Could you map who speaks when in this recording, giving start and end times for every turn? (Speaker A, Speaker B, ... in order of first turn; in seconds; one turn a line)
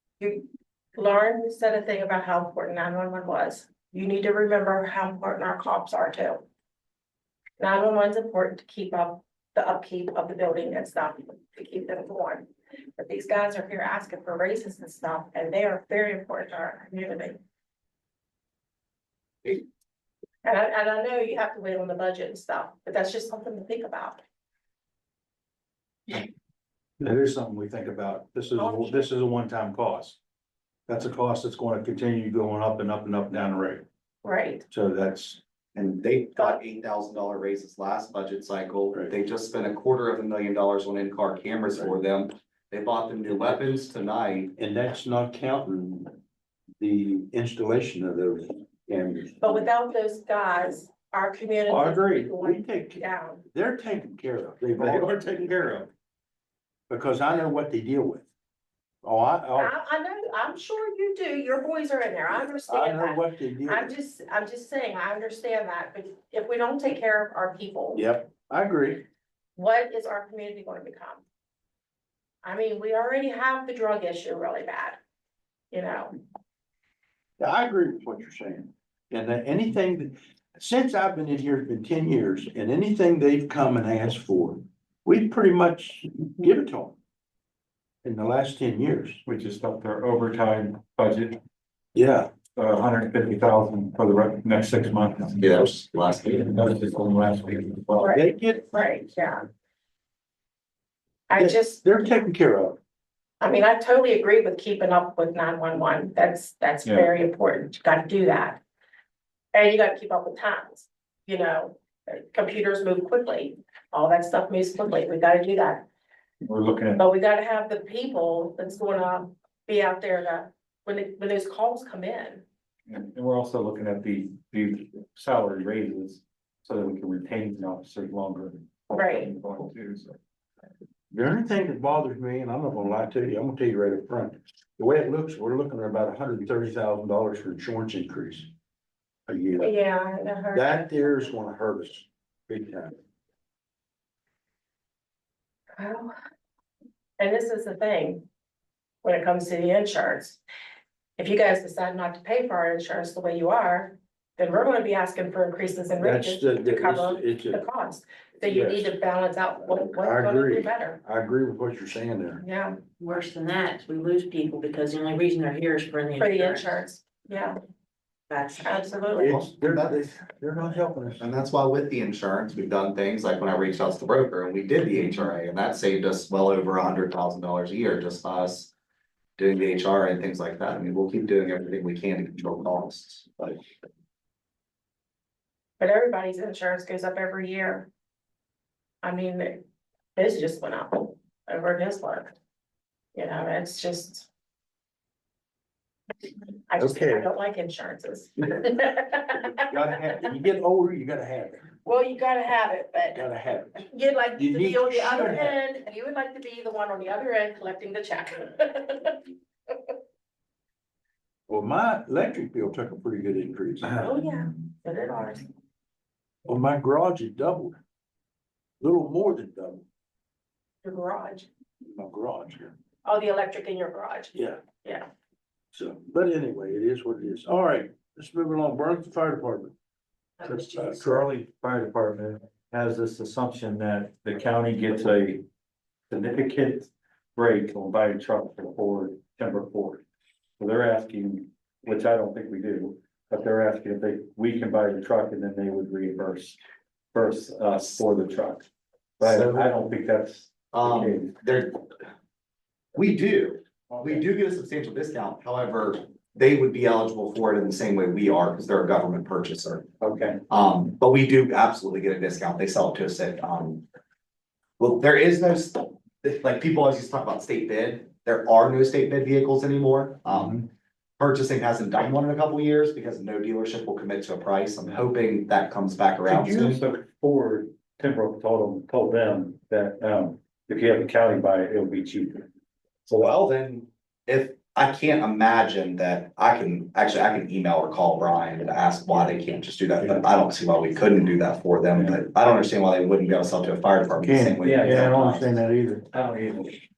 Speaker A: 0.2-6.4
Speaker A: 7.6-17.4
Speaker A: 20.4-24.2
Speaker B: 27.0-30.2
Speaker A: 28.6-29.1
Speaker B: 30.9-33.8
Speaker A: 34.2-34.6
Speaker B: 34.7-35.4
Speaker C: 35.7-44.5
Speaker B: 44.5-46.2
Speaker B: 46.8-49.6
Speaker A: 49.4-53.4
Speaker B: 51.7-55.9
Speaker D: 54.8-55.1
Speaker B: 56.9-58.3
Speaker B: 59.0-59.7
Speaker A: 59.5-68.0
Speaker B: 62.6-63.9
Speaker B: 68.0-69.0
Speaker A: 69.5-71.2
Speaker A: 72.4-75.0
Speaker A: 75.7-76.1
Speaker B: 77.4-87.0
Speaker B: 88.0-89.2
Speaker D: 89.2-91.4
Speaker B: 91.9-92.3
Speaker D: 92.5-95.6
Speaker C: 95.4-96.5
Speaker D: 96.3-98.1
Speaker A: 98.0-99.5
Speaker B: 98.1-98.7
Speaker A: 101.3-101.8
Speaker B: 101.3-102.8
Speaker A: 103.4-108.6
Speaker A: 109.5-115.8
Speaker D: 116.4-117.0
Speaker A: 117.0-122.4
Speaker D: 122.9-130.2
Speaker A: 128.9-129.3
Speaker B: 131.1-138.5
Speaker B: 139.3-139.7
Speaker A: 139.6-141.2
Speaker B: 140.5-142.9
Speaker A: 145.8-146.1
Speaker A: 147.2-148.2
Speaker A: 149.0-150.4
Speaker A: 151.2-161.0
Speaker B: 156.0-157.6
Speaker B: 158.4-158.9
Speaker B: 160.0-162.4
Speaker A: 162.4-162.8
Speaker E: 163.0-166.8
Speaker A: 166.2-167.6
Speaker E: 168.3-168.7
Speaker A: 168.6-169.4
Speaker B: 169.1-171.2
Speaker C: 169.2-170.1
Speaker C: 171.2-178.7
Speaker C: 179.4-183.5
Speaker A: 185.8-187.9
Speaker A: 189.0-189.6
Speaker A: 190.2-192.3
Speaker A: 193.1-194.3
Speaker A: 196.7-199.7
Speaker B: 196.8-197.3
Speaker B: 199.5-201.7
Speaker A: 201.8-203.2
Speaker B: 203.1-205.6
Speaker A: 203.8-209.2
Speaker B: 211.5-214.1
Speaker A: 213.9-215.4
Speaker B: 216.4-217.8
Speaker B: 218.8-219.8
Speaker A: 220.8-221.5
Speaker B: 221.8-222.7
Speaker A: 223.0-225.1
Speaker B: 224.3-224.6
Speaker B: 225.7-229.7
Speaker E: 230.4-230.9
Speaker D: 230.5-235.4
Speaker B: 230.7-231.2
Speaker D: 236.1-240.0
Speaker D: 240.6-246.6
Speaker D: 247.1-248.7
Speaker C: 249.2-249.7
Speaker D: 249.2-251.3
Speaker C: 250.7-251.8
Speaker C: 252.9-259.9
Speaker D: 253.9-254.2
Speaker D: 260.0-260.4
Speaker C: 260.5-263.8
Speaker C: 264.8-270.7
Speaker C: 271.2-276.8
Speaker D: 276.3-282.4
Speaker C: 283.1-295.5
Speaker B: 294.2-296.0
Speaker D: 294.6-295.4
Speaker D: 296.0-296.8